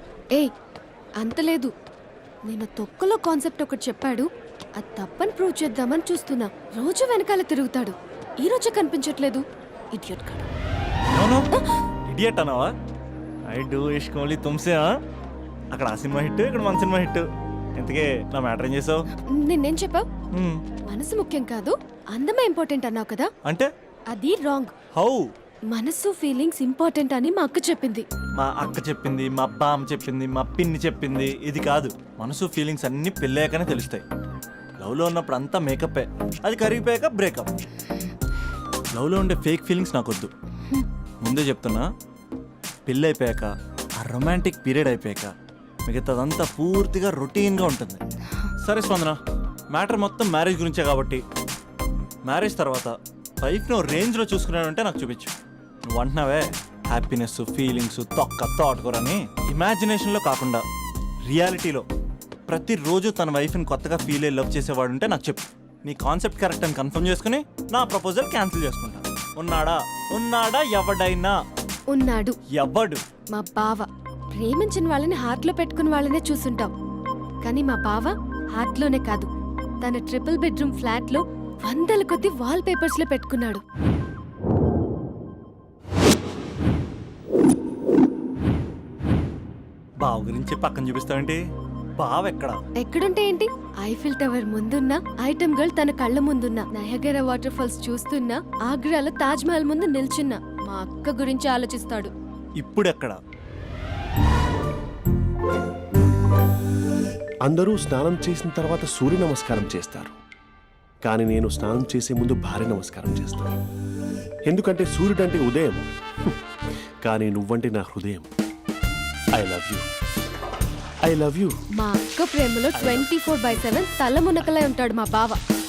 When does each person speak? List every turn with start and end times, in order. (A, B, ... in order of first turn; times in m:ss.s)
0:01.2-0:01.7 A
0:02.5-0:10.5 A
0:11.1-0:11.5 B
0:12.1-0:12.7 B
0:13.5-0:14.9 B
0:15.7-0:17.2 B
0:17.8-0:19.0 B
0:19.3-0:20.1 A
0:20.4-0:20.6 B
0:20.9-0:23.3 A
0:24.1-0:24.7 A
0:25.0-0:25.2 B
0:25.7-0:28.0 A
0:28.4-0:34.0 B
0:34.8-0:37.5 B
0:39.0-0:40.3 B
0:41.2-0:41.9 B
0:42.9-0:43.5 B
0:44.0-0:45.3 B
0:45.9-0:48.0 B
0:48.6-0:49.2 B
0:49.7-0:51.2 B
0:52.3-0:55.3 B
0:55.9-1:00.6 B
1:01.3-1:01.8 B
1:02.5-1:11.4 B
1:11.9-1:12.4 A
1:12.6-1:13.0 B
1:13.3-1:16.7 A
1:17.4-1:19.3 A
1:19.8-1:23.6 A
1:30.0-1:31.4 B
1:32.0-1:32.6 B
1:32.8-1:42.1 A
1:42.6-1:43.2 B
1:47.4-1:50.2 C
1:51.0-1:53.5 C
1:54.5-1:56.3 C
1:57.0-1:58.3 C
1:59.4-1:59.8 C
2:01.0-2:01.5 C
2:01.8-2:05.4 A
2:02.8-2:03.6 C